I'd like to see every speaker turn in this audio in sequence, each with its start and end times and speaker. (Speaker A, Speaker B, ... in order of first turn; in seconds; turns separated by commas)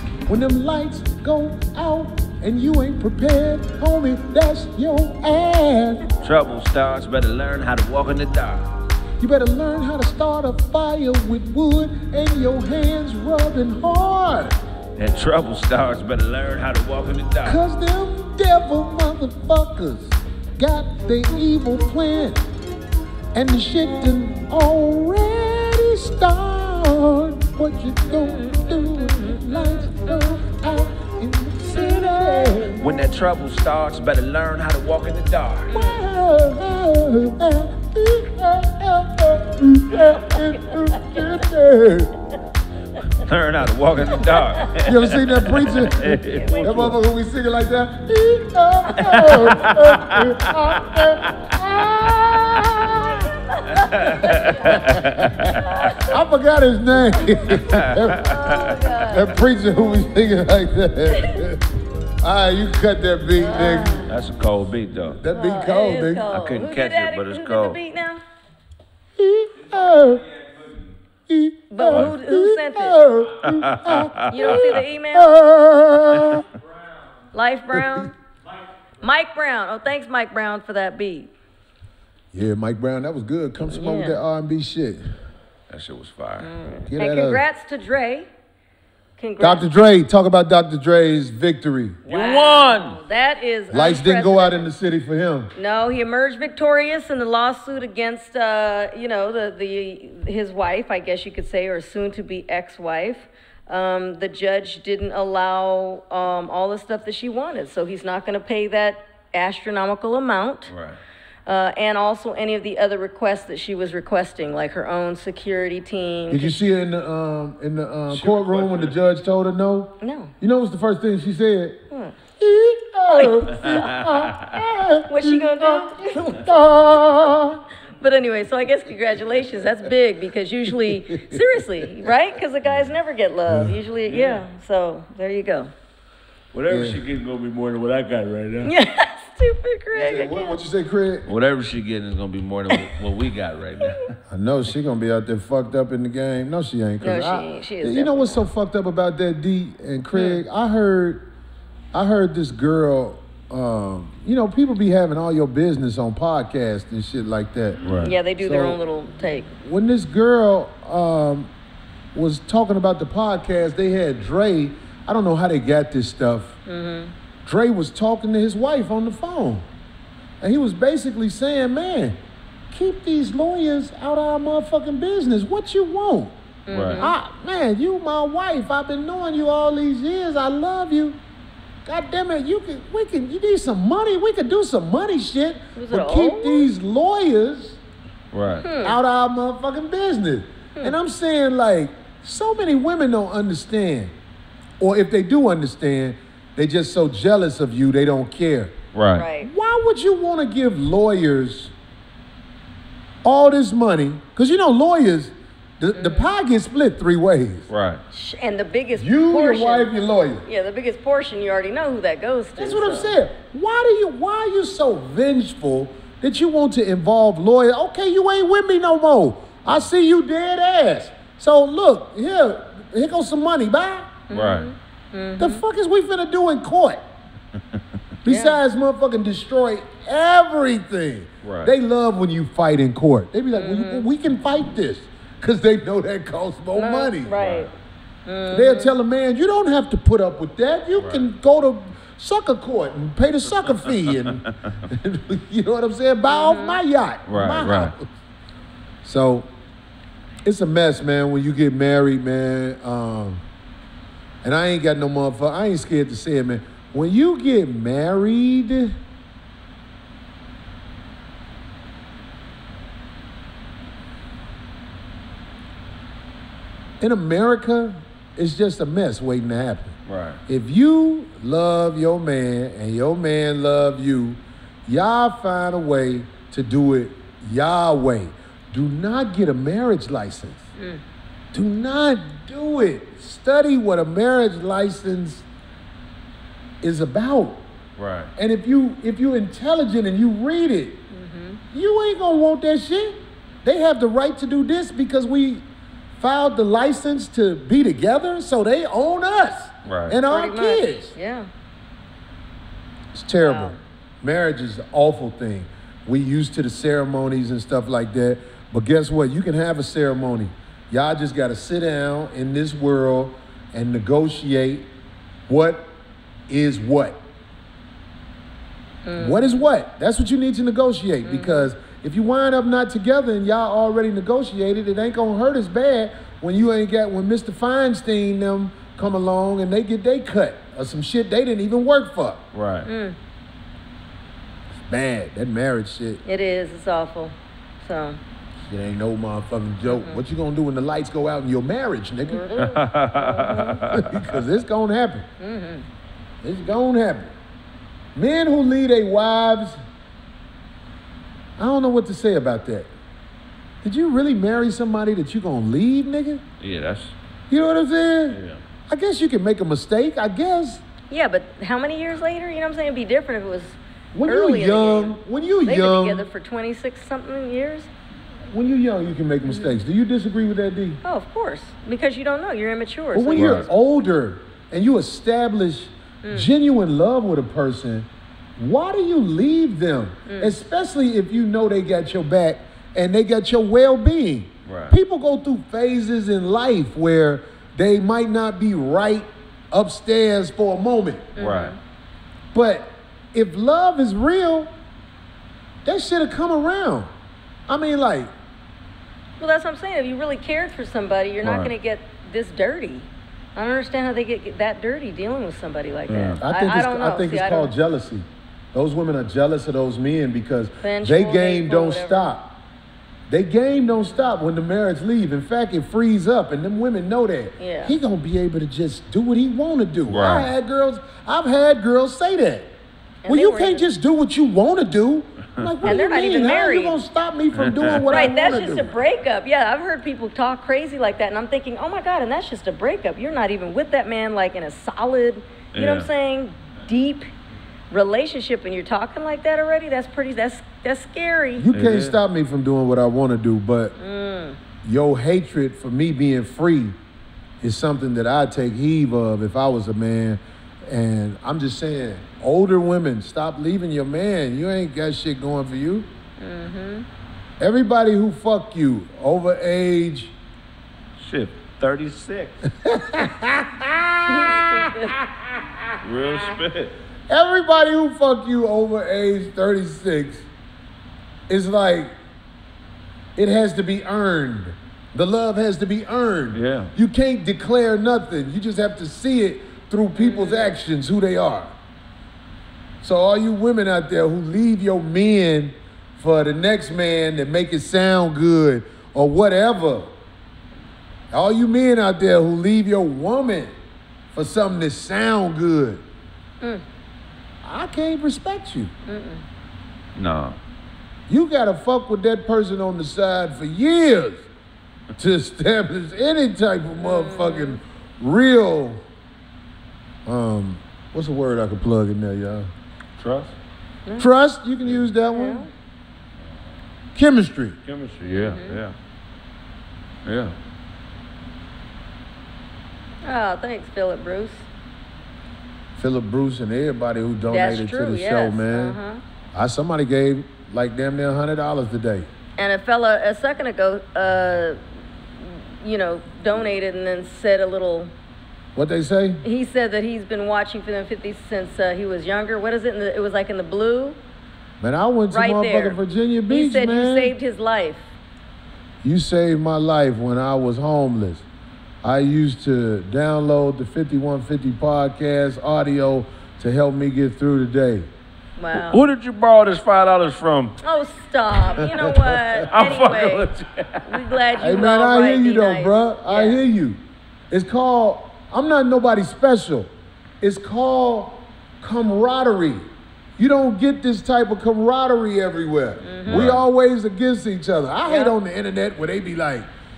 Speaker A: 0.3-6.1, Speaker B: 6.2-8.7, Speaker A: 9.2-14.6, Speaker B: 14.9-17.6, Speaker A: 17.4-22.5, Speaker A: 23.3-32.8, Speaker C: 28.1-30.1, Speaker C: 31.8-32.8, Speaker B: 32.8-35.7, Speaker C: 35.7-36.0, Speaker A: 35.7-42.1, Speaker C: 40.3-41.3, Speaker B: 43.1-46.9, Speaker C: 44.2-44.8, Speaker A: 44.8-53.2, Speaker C: 46.0-46.9, Speaker C: 48.9-49.8, Speaker B: 49.3-51.6, Speaker C: 52.8-54.8, Speaker B: 53.7-56.0, Speaker A: 54.5-64.0, Speaker C: 55.5-56.2, Speaker C: 57.2-59.4, Speaker B: 57.5-59.0, Speaker C: 63.4-64.1, Speaker B: 64.1-65.2, Speaker A: 65.2-66.3, Speaker C: 65.3-68.2, Speaker B: 66.3-67.8, Speaker A: 69.2-70.2, Speaker A: 71.3-76.5, Speaker C: 71.7-73.0, Speaker B: 73.4-74.8, Speaker C: 74.3-75.3, Speaker C: 77.3-78.1, Speaker A: 77.7-78.1, Speaker C: 79.0-81.3, Speaker A: 82.3-85.0, Speaker C: 83.7-84.2, Speaker B: 85.7-86.5, Speaker C: 86.4-88.3, Speaker A: 86.9-87.4, Speaker C: 89.2-89.7, Speaker A: 89.4-92.0, Speaker C: 92.0-94.7, Speaker B: 92.1-93.0, Speaker A: 93.7-95.5, Speaker C: 95.5-110.7, Speaker B: 110.7-111.0, Speaker C: 111.5-116.6, Speaker A: 116.3-121.8, Speaker B: 118.1-118.9, Speaker C: 120.0-120.3, Speaker C: 121.9-122.2, Speaker A: 122.4-127.6, Speaker C: 123.1-124.0, Speaker B: 123.6-124.6, Speaker C: 125.1-126.5, Speaker C: 128.0-135.7, Speaker A: 130.8-132.1, Speaker A: 133.5-133.8, Speaker B: 134.1-134.4, Speaker B: 136.5-138.7, Speaker A: 136.7-137.0, Speaker C: 138.6-140.6, Speaker A: 139.9-141.3, Speaker B: 141.2-144.2, Speaker A: 144.3-151.3, Speaker C: 147.0-148.4, Speaker C: 150.1-150.4, Speaker A: 151.9-157.8, Speaker B: 157.8-158.1, Speaker C: 158.0-159.5, Speaker A: 158.4-158.8, Speaker A: 159.6-161.5, Speaker A: 162.1-166.6, Speaker C: 166.7-167.1, Speaker A: 167.4-169.7, Speaker A: 170.4-172.2, Speaker A: 172.7-176.3, Speaker C: 176.7-177.1, Speaker B: 176.7-177.0, Speaker A: 176.9-181.2, Speaker A: 181.8-187.8, Speaker C: 185.7-186.7, Speaker B: 188.3-188.7, Speaker C: 188.6-189.0, Speaker A: 188.8-194.1, Speaker A: 194.8-198.7, Speaker B: 198.9-199.3, Speaker C: 199.2-199.5, Speaker A: 199.4-201.7, Speaker A: 203.2-207.7, Speaker C: 205.9-206.3, Speaker B: 207.7-208.0, Speaker C: 208.1-209.9, Speaker A: 209.0-210.4, Speaker C: 210.4-213.2, Speaker A: 212.6-224.2, Speaker C: 224.3-225.6, Speaker B: 224.3-224.7, Speaker A: 225.4-227.0, Speaker A: 228.2-237.4, Speaker C: 228.2-228.6, Speaker B: 231.4-231.7, Speaker C: 233.5-234.1, Speaker C: 236.7-237.7, Speaker B: 237.4-237.7, Speaker C: 238.2-238.9, Speaker A: 238.5-248.1, Speaker B: 241.0-241.2, Speaker C: 246.3-246.8, Speaker B: 247.3-247.9, Speaker A: 249.0-249.5, Speaker A: 250.4-253.4, Speaker A: 254.4-259.0, Speaker A: 267.0-269.9, Speaker B: 270.1-270.4, Speaker A: 270.5-280.7, Speaker A: 281.5-285.4, Speaker A: 286.8-287.6, Speaker B: 288.0-288.3, Speaker A: 288.4-291.0, Speaker C: 291.1-291.6, Speaker A: 291.7-295.6, Speaker A: 296.2-301.1, Speaker B: 299.8-300.2, Speaker C: 300.3-301.5, Speaker A: 303.1-314.9, Speaker C: 303.4-303.8, Speaker A: 315.5-315.9, Speaker A: 316.5-317.2, Speaker C: 319.0-319.6, Speaker A: 319.2-332.4, Speaker C: 321.2-321.7, Speaker B: 332.5-332.9, Speaker C: 332.9-333.1, Speaker A: 334.9-336.2, Speaker C: 336.2-338.2, Speaker A: 338.7-342.5, Speaker C: 342.3-343.8, Speaker B: 342.6-344.4, Speaker A: 343.9-345.3, Speaker C: 345.4-345.9, Speaker A: 346.4-347.3, Speaker A: 348.1-349.8, Speaker A: 351.6-352.9, Speaker A: 353.8-356.4, Speaker B: 356.6-357.1, Speaker A: 357.5-360.8, Speaker B: 358.3-358.6, Speaker C: 361.1-365.1, Speaker A: 364.1-366.2, Speaker C: 365.6-367.9, Speaker A: 368.5-371.0, Speaker C: 369.5-369.7, Speaker C: 371.0-373.6, Speaker A: 373.1-391.3, Speaker B: 373.4-373.7, Speaker C: 380.2-380.5, Speaker B: 384.6-384.9, Speaker C: 391.4-391.8, Speaker B: 391.4-391.7, Speaker A: 392.5-394.7, Speaker A: 395.8-397.1, Speaker A: 397.7-398.3, Speaker C: 399.4-407.7, Speaker B: 401.4-401.7, Speaker B: 406.1-406.4, Speaker A: 406.4-412.6, Speaker C: 410.8-412.3, Speaker A: 413.3-422.7, Speaker C: 417.6-417.9, Speaker B: 420.1-420.5, Speaker C: 423.2-423.9, Speaker A: 423.2-429.0, Speaker C: 425.8-427.0, Speaker B: 427.5-428.2, Speaker C: 428.1-437.3, Speaker B: 435.7-436.1, Speaker C: 437.9-441.7, Speaker A: 441.6-443.9, Speaker B: 441.7-442.1, Speaker C: 444.0-444.6, Speaker A: 444.8-447.0, Speaker A: 447.6-456.1, Speaker C: 456.4-457.1, Speaker A: 457.6-460.4, Speaker B: 461.2-462.6, Speaker A: 462.7-466.5, Speaker C: 464.2-465.2, Speaker B: 466.0-466.9, Speaker A: 467.3-470.5, Speaker A: 471.5-472.1, Speaker A: 473.4-481.7, Speaker B: 476.5-476.9, Speaker C: 480.1-480.8, Speaker A: 483.0-490.1, Speaker A: 491.3-493.7, Speaker A: 494.3-496.0, Speaker A: 497.6-498.9, Speaker C: 499.1-499.4, Speaker B: 500.1-500.6, Speaker A: 501.3-504.5, Speaker A: 505.2-509.0, Speaker C: 507.0-507.8, Speaker A: 510.2-512.7, Speaker B: 513.2-513.5, Speaker A: 514.2-515.7, Speaker C: 515.3-515.7, Speaker A: 517.1-517.8, Speaker B: 517.8-518.9, Speaker C: 518.2-518.8, Speaker B: 520.2-520.5, Speaker C: 523.2-524.7, Speaker A: 526.0-529.0, Speaker C: 527.5-529.2, Speaker A: 529.5-532.3, Speaker C: 532.6-534.8, Speaker C: 535.4-538.1, Speaker A: 538.7-539.4, Speaker C: 539.4-544.2, Speaker A: 544.8-547.3, Speaker C: 545.3-548.1, Speaker A: 549.0-551.4, Speaker A: 552.0-558.1, Speaker C: 558.6-559.0, Speaker B: 558.7-560.8, Speaker C: 560.8-563.5, Speaker A: 561.8-562.7, Speaker B: 562.7-564.3, Speaker C: 564.0-566.6, Speaker A: 564.6-569.9, Speaker A: 570.4-572.8, Speaker A: 573.4-579.7, Speaker C: 576.0-576.5, Speaker B: 576.2-576.6, Speaker C: 578.0-578.3